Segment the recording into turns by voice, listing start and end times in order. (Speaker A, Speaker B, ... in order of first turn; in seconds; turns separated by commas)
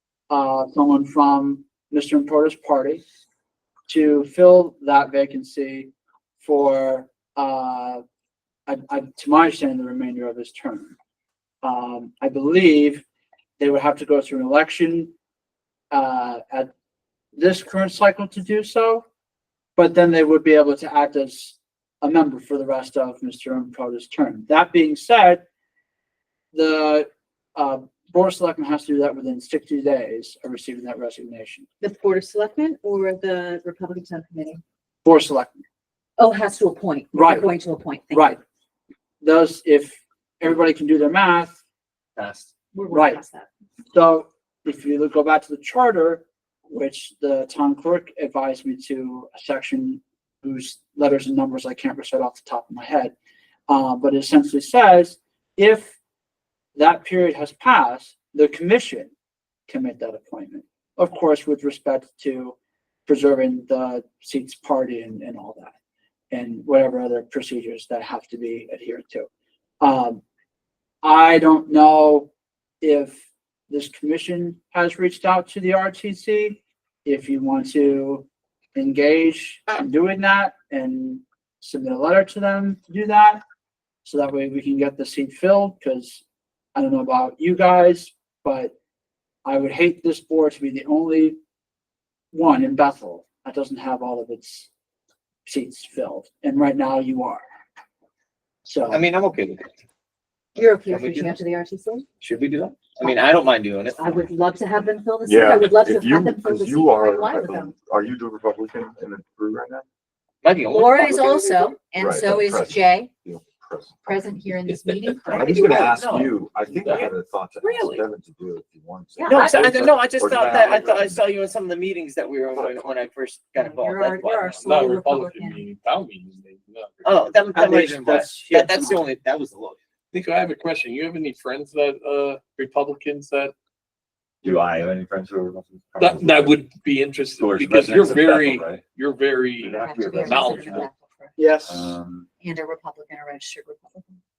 Speaker A: 0.3-3.0, Speaker A: 3.9-8.0, Speaker A: 8.7-11.0, Speaker A: 11.6-13.1, Speaker A: 13.6-15.1, Speaker A: 15.9-16.7, Speaker A: 17.4-19.1, Speaker A: 19.8-25.4, Speaker A: 26.5-31.7, Speaker B: 31.8-34.6, Speaker A: 35.0-35.6, Speaker B: 36.2-38.4, Speaker A: 37.1-37.5, Speaker A: 38.1-38.4, Speaker A: 39.2-41.6, Speaker C: 42.2-42.5, Speaker B: 42.7-43.5, Speaker A: 42.9-43.2, Speaker A: 43.9-53.1, Speaker A: 53.7-56.0, Speaker A: 56.8-59.1, Speaker A: 59.7-65.7, Speaker A: 66.3-69.3, Speaker A: 69.8-70.2, Speaker A: 71.0-72.3, Speaker A: 72.8-83.4, Speaker A: 84.0-86.2, Speaker A: 86.8-88.7, Speaker A: 89.5-91.4, Speaker A: 92.3-94.7, Speaker A: 95.5-97.5, Speaker A: 98.7-99.0, Speaker C: 98.9-99.8, Speaker B: 100.6-102.1, Speaker C: 100.9-101.4, Speaker C: 102.2-104.2, Speaker B: 104.0-107.7, Speaker D: 105.3-109.8, Speaker C: 110.4-111.8, Speaker B: 110.7-113.1, Speaker D: 112.0-114.2, Speaker B: 114.0-115.9, Speaker E: 114.8-115.3, Speaker C: 115.3-117.1, Speaker D: 115.3-121.2, Speaker B: 117.6-118.0, Speaker B: 119.2-119.8, Speaker C: 119.3-124.9, Speaker D: 122.6-122.9, Speaker B: 123.6-125.7, Speaker E: 124.6-127.4, Speaker C: 127.0-129.8, Speaker A: 127.5-129.0, Speaker E: 130.1-133.5, Speaker D: 134.4-136.6, Speaker E: 136.0-140.9, Speaker D: 137.4-138.8, Speaker D: 139.6-140.9, Speaker B: 139.8-141.5, Speaker A: 141.4-141.9, Speaker D: 141.7-142.3, Speaker B: 142.4-144.2